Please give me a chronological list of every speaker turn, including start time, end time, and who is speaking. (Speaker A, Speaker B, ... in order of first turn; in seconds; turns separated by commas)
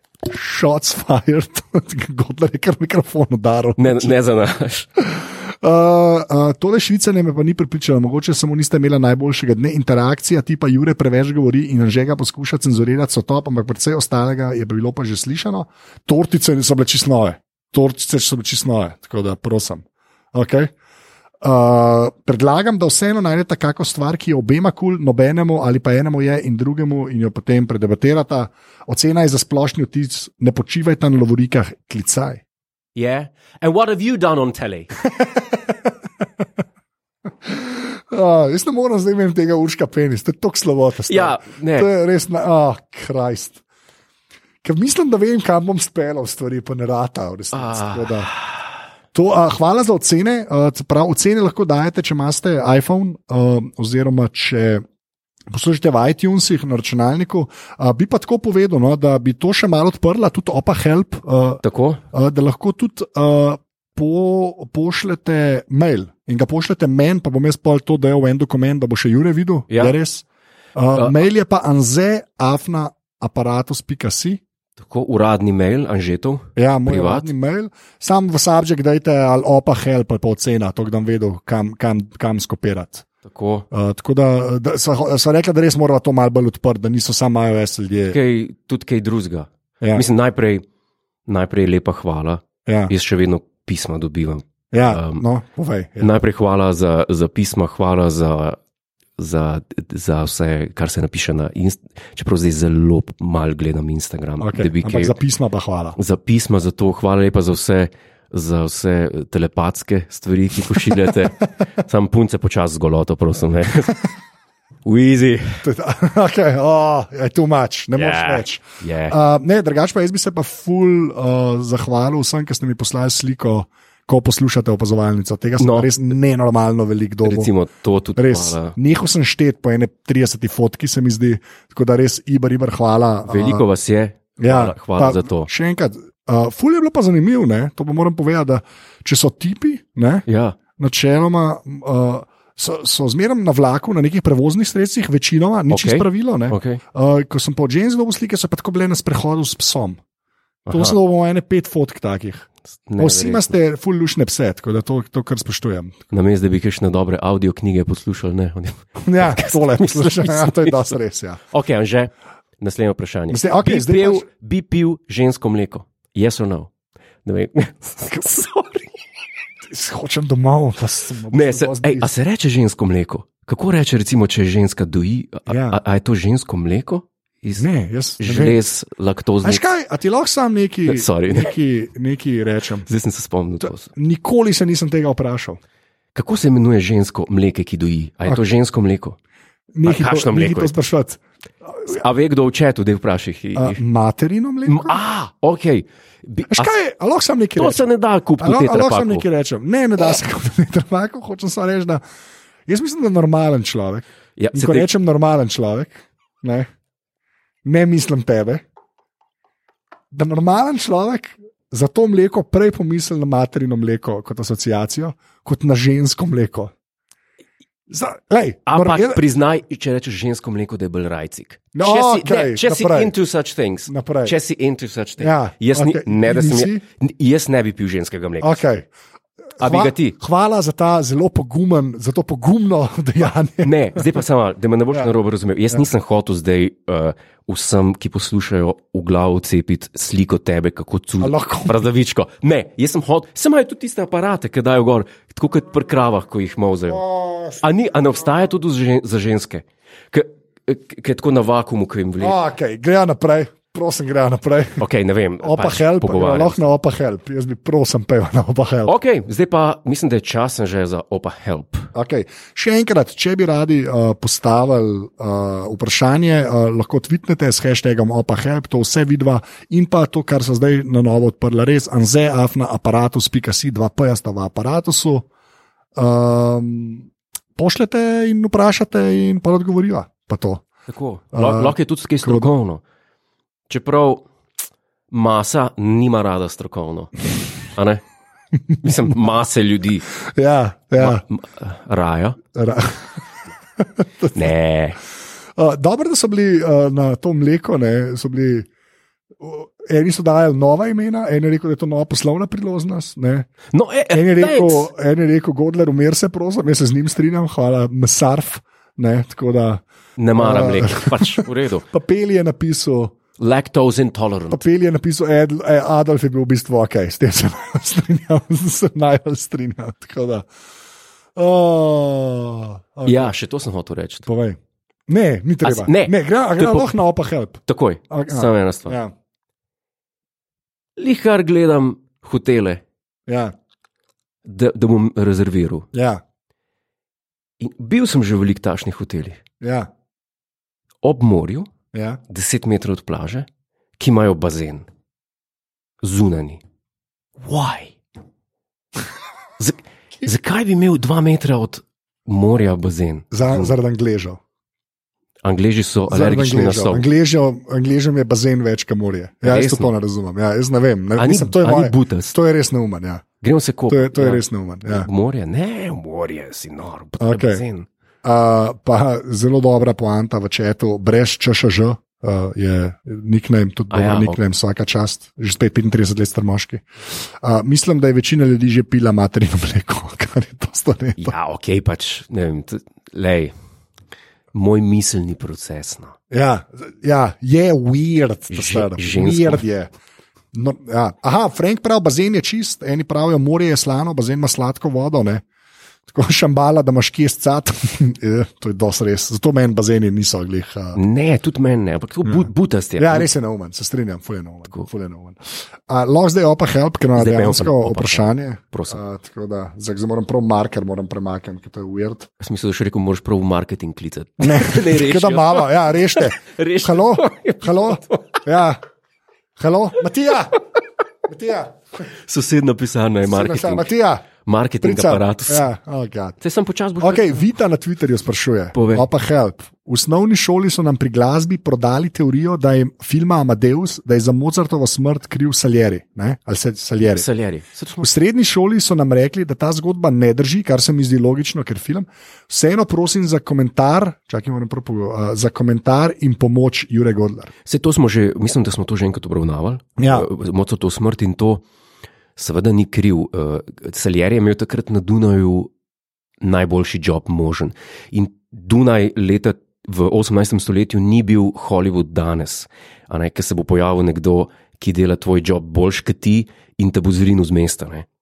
Speaker A: 0.2-4.1, Speaker B: 3.8-4.9, Speaker A: 5.0-20.7, Speaker A: 21.4-32.4, Speaker B: 32.9-34.9, Speaker A: 35.0-36.2, Speaker A: 37.4-43.6, Speaker B: 41.1-41.9, Speaker A: 44.6-48.3, Speaker B: 47.5-48.7, Speaker A: 49.1-54.8, Speaker A: 55.5-74.4, Speaker B: 61.6-62.0, Speaker B: 69.7-70.0, Speaker B: 74.8-77.3, Speaker A: 76.6-83.0, Speaker B: 83.2-83.7, Speaker A: 83.7-88.2, Speaker B: 88.1-90.6, Speaker B: 91.3-95.2, Speaker A: 92.7-92.9, Speaker A: 94.7-96.2, Speaker B: 96.0-98.6, Speaker B: 99.2-105.1, Speaker A: 104.4-106.0, Speaker B: 106.0-114.0, Speaker B: 114.8-115.6, Speaker A: 115.6-127.5, Speaker B: 117.9-119.2, Speaker B: 125.6-125.9, Speaker B: 127.2-128.8, Speaker A: 128.2-133.6, Speaker B: 133.3-135.5, Speaker A: 134.4-140.2, Speaker B: 140.3-140.6, Speaker A: 140.8-150.0, Speaker B: 145.7-146.8, Speaker B: 150.7-151.0, Speaker A: 150.7-156.0, Speaker B: 152.9-153.5, Speaker B: 156.1-160.9, Speaker A: 159.0-161.4, Speaker B: 161.5-166.7, Speaker A: 163.3-164.2, Speaker B: 167.2-168.9, Speaker A: 169.6-172.1, Speaker B: 171.3-177.7, Speaker A: 175.5-175.8, Speaker A: 177.6-178.6, Speaker B: 178.2-179.6, Speaker A: 179.4-182.9, Speaker B: 180.8-181.5, Speaker B: 182.8-183.9, Speaker A: 183.6-185.6, Speaker B: 186.1-189.2, Speaker A: 189.7-192.0, Speaker B: 189.8-190.7, Speaker B: 191.9-193.8, Speaker A: 193.5-195.0, Speaker B: 194.6-196.7, Speaker A: 196.5-197.8, Speaker B: 197.6-199.2, Speaker A: 198.4-202.0, Speaker A: 202.7-206.7, Speaker B: 204.4-204.9, Speaker A: 207.6-208.6, Speaker A: 210.1-216.7, Speaker A: 217.9-219.2, Speaker B: 218.7-228.6, Speaker A: 221.7-223.1, Speaker A: 223.9-224.3, Speaker A: 225.2-226.8, Speaker A: 228.4-228.9, Speaker A: 229.6-234.2, Speaker B: 229.6-230.2, Speaker B: 233.6-247.0, Speaker A: 241.2-241.9, Speaker A: 246.9-247.6, Speaker B: 247.6-252.4, Speaker A: 252.2-254.8, Speaker B: 254.8-256.6, Speaker A: 255.4-258.9, Speaker B: 258.9-261.9, Speaker A: 261.9-275.2, Speaker A: 275.9-280.6, Speaker B: 280.9-282.8, Speaker A: 281.3-282.5, Speaker B: 283.7-284.2, Speaker B: 285.1-288.0, Speaker B: 288.8-290.1, Speaker A: 290.2-291.2, Speaker B: 291.0-292.4, Speaker A: 292.5-293.2, Speaker A: 293.8-294.5, Speaker B: 294.3-295.0, Speaker A: 295.5-298.7, Speaker A: 299.4-303.5, Speaker B: 303.7-304.9, Speaker A: 304.1-309.8, Speaker B: 310.2-311.9, Speaker A: 310.4-313.1, Speaker B: 313.4-314.6, Speaker A: 314.5-320.5, Speaker A: 321.4-323.3, Speaker B: 323.1-324.3, Speaker A: 324.3-329.1, Speaker B: 325.6-326.9, Speaker B: 327.7-329.0, Speaker B: 331.0-332.8, Speaker A: 333.3-333.5, Speaker B: 334.4-335.9, Speaker A: 335.9-336.2, Speaker B: 337.6-339.4, Speaker A: 339.6-339.9, Speaker B: 341.0-341.7, Speaker A: 341.9-342.2, Speaker B: 342.3-343.5, Speaker B: 344.0-344.9, Speaker B: 346.0-346.6, Speaker B: 347.4-347.9, Speaker B: 349.6-353.7, Speaker A: 353.3-354.4, Speaker B: 355.4-357.0, Speaker A: 356.1-363.2, Speaker B: 359.4-359.9, Speaker B: 361.2-362.3, Speaker B: 363.4-367.9, Speaker A: 363.9-365.1, Speaker A: 367.2-367.6, Speaker A: 368.2-381.3, Speaker B: 373.9-374.4, Speaker B: 381.2-383.5, Speaker B: 384.5-386.1, Speaker A: 386.3-389.9, Speaker B: 388.5-389.6, Speaker A: 390.5-395.4, Speaker A: 396.1-401.0, Speaker B: 400.9-403.3, Speaker A: 403.0-412.3, Speaker B: 407.1-409.0, Speaker B: 412.4-418.4, Speaker A: 414.4-418.8, Speaker A: 419.6-420.5, Speaker A: 421.2-421.8, Speaker B: 422.1-423.9, Speaker A: 423.2-424.2, Speaker B: 424.4-425.7, Speaker A: 424.8-426.4, Speaker B: 426.4-427.4, Speaker A: 427.0-437.3, Speaker B: 428.7-429.1, Speaker B: 437.0-438.1, Speaker A: 438.0-447.5, Speaker B: 447.6-451.6, Speaker A: 450.0-450.3, Speaker B: 452.4-455.7, Speaker B: 456.4-468.1